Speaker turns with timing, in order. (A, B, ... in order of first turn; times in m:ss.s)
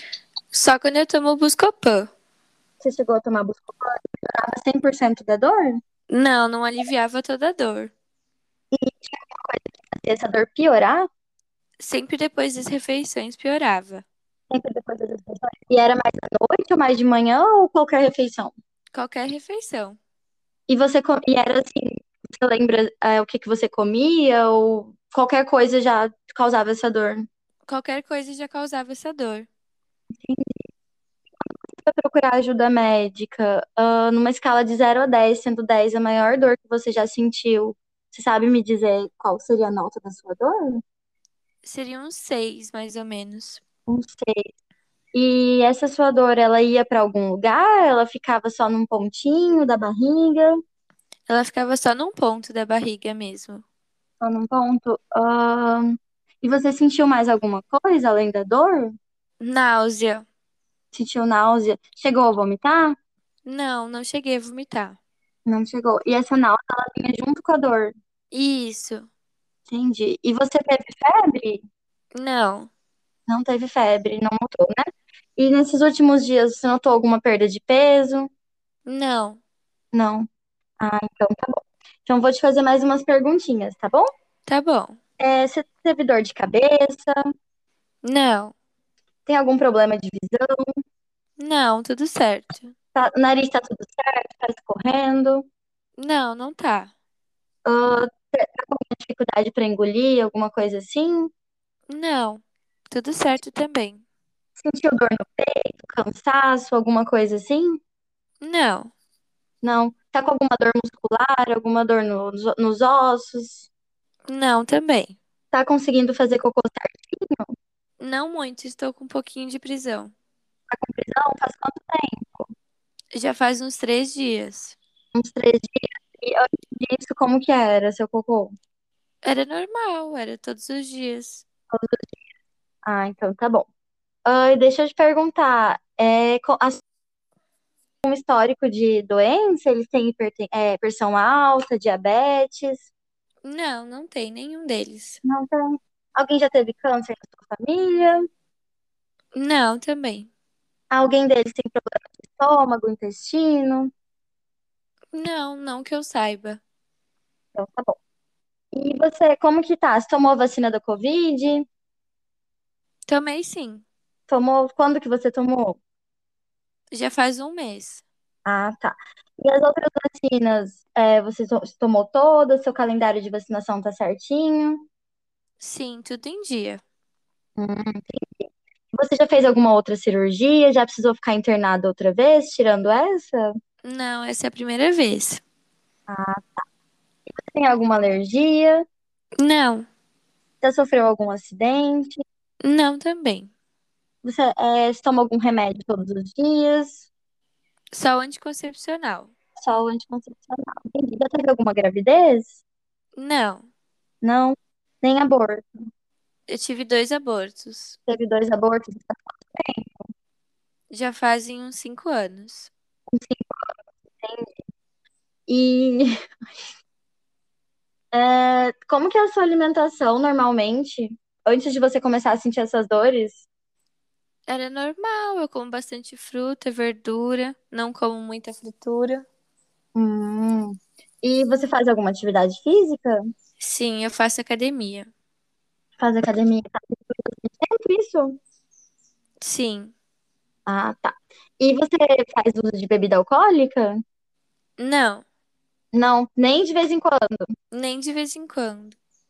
0:00.5-0:02.1 A
0:02.8-0:05.8 B
0:06.1-0:07.9 A
0:08.7-0:11.1 B
0:11.8-0:14.0 A
0:14.5-0:18.5 B
0:18.9-0:20.0 A
0:20.7-0:27.3 B
0:27.7-0:29.5 A
0:30.2-0:30.6 B
0:31.4-0:40.8 B
0:41.6-0:43.6 A
0:43.9-0:44.5 B
0:45.1-0:50.6 B
0:51.3-0:53.6 A
0:54.2-0:59.0 B
0:59.4-1:00.2 A
1:00.9-1:03.0 B
1:03.4-1:05.0 A
1:05.4-1:07.9 B
1:08.3-1:09.1 A
1:09.7-1:11.6 B
1:12.1-1:12.7 A
1:13.3-1:14.8 B
1:15.4-1:18.3 B
1:18.9-1:19.4 A
1:19.9-1:20.3 B
1:20.8-1:24.1 B
1:24.5-1:25.0 A
1:25.2-1:27.2 B
1:28.0-1:28.5 A
1:29.2-1:30.6 B
1:31.4-1:32.7 A
1:32.9-1:35.4 B
1:36.0-1:36.9 A
1:37.6-1:41.3 B
1:41.9-1:44.0 A
1:44.6-1:47.8 B
1:48.4-1:48.9 A
1:49.6-1:53.7 B
1:54.3-1:55.2 A
1:55.5-1:57.5 B
1:58.0-2:00.1 A
2:00.7-2:02.5 B
2:03.1-2:04.8 A
2:05.1-2:08.5 B
2:09.2-2:11.4 A
2:11.7-2:12.0 B
2:12.8-2:13.7 B
2:14.2-2:16.8 B
2:18.0-2:22.9 B
2:23.4-2:25.2 A
2:25.2-2:28.3 B
2:29.3-2:30.3 A
2:30.9-2:33.9 B
2:35.1-2:36.6 A
2:37.5-2:38.0 B
2:38.7-2:41.7 B
2:43.1-2:43.8 A
2:44.3-2:45.8 B
2:46.9-2:48.0 A
2:48.4-2:54.8 B
2:55.6-2:56.8 A
2:57.6-3:03.5 B
3:03.8-3:05.4 A
3:06.1-3:06.6 B
3:07.4-3:08.8 B
3:09.4-3:09.9 A
3:10.6-3:12.2 B
3:12.6-3:13.5 A
3:14.2-3:17.1 B
3:17.9-3:19.3 A
3:19.6-3:22.6 B
3:23.2-3:23.7 A
3:24.2-3:25.8 B
3:26.5-3:28.0 A
3:28.1-3:30.0 B
3:30.9-3:32.7 A
3:33.1-3:34.6 B
3:35.5-3:36.1 B
3:38.1-3:43.4 B
3:44.5-3:49.2 A
3:49.9-3:53.2 B
3:53.6-3:55.1 A
3:56.0-3:58.4 B
3:59.4-3:59.9 A
4:00.6-4:04.0 B
4:04.8-4:05.2 A
4:05.9-4:07.5 B
4:07.7-4:09.0 A